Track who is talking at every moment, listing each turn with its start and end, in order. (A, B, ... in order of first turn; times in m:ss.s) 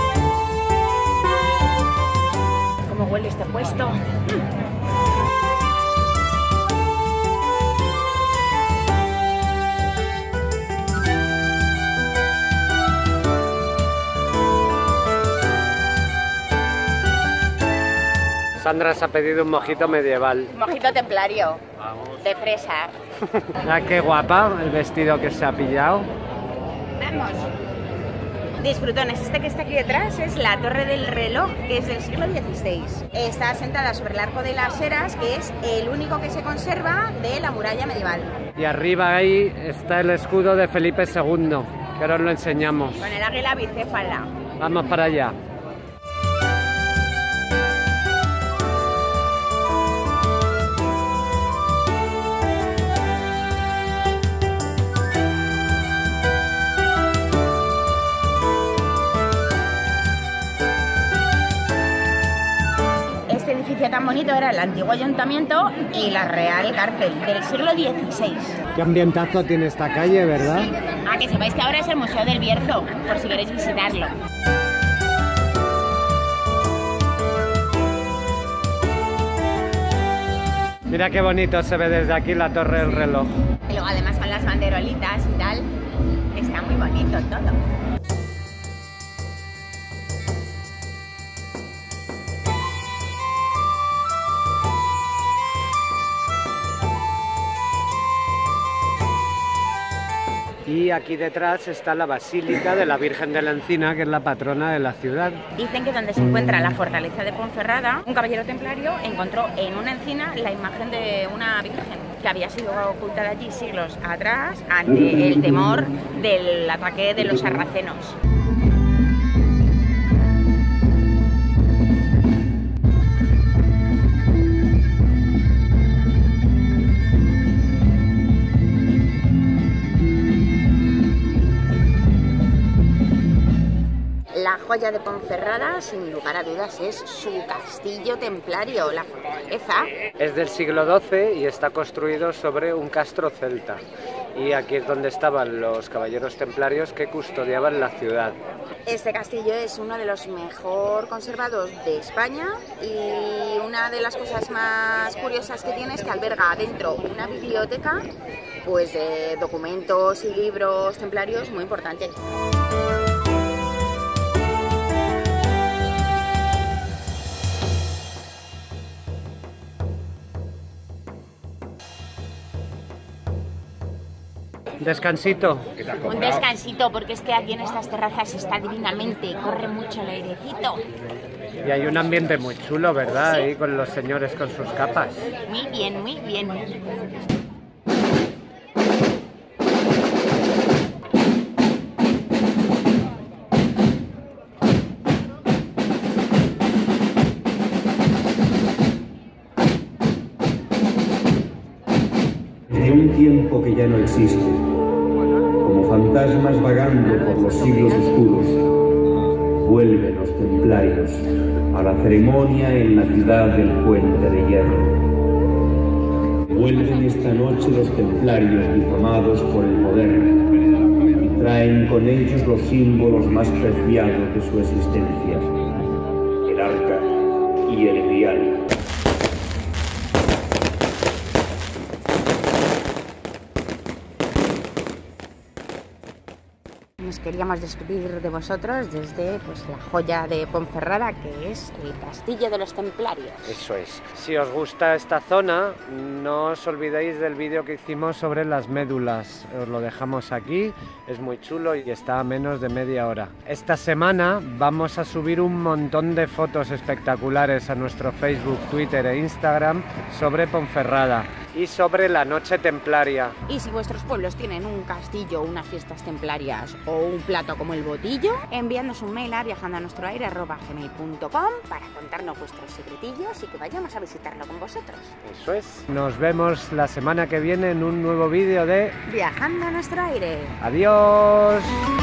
0:02.9-0:04.2 A
0:18.6-0:20.5 B
0:20.5-0:23.0 A
0:23.4-0:26.1 B
0:27.0-0:27.5 A
0:28.6-0:38.3 A
0:38.6-0:43.1 B
0:43.0-0:44.3 A
0:44.6-0:45.4 B
1:03.3-1:08.6 A
1:08.7-1:10.7 B
1:11.0-1:14.2 A
1:20.9-1:23.3 B
1:23.7-1:25.7 A
1:26.3-1:27.6 A
1:40.7-1:45.4 B
1:45.6-1:58.2 A
2:14.3-2:19.9 A
2:20.2-2:23.8 B
2:24.3-2:28.4 B
2:28.8-2:38.1 A
2:38.6-2:42.2 A
2:54.8-2:56.4 B
2:56.0-3:00.8 A
3:01.6-3:05.3 B
3:05.5-3:06.8 A
3:22.7-3:24.6 C
3:25.6-3:28.6 C
3:27.3-3:27.8 A
3:29.6-3:35.0 C
3:36.5-3:40.4 C
3:41.2-3:45.6 C
3:46.5-3:48.6 C
3:57.0-4:03.6 A
4:03.4-4:23.4 B
4:23.5-4:35.2 A
4:35.2-4:39.0 B
4:39.1-4:40.6 A
4:40.6-4:41.8 B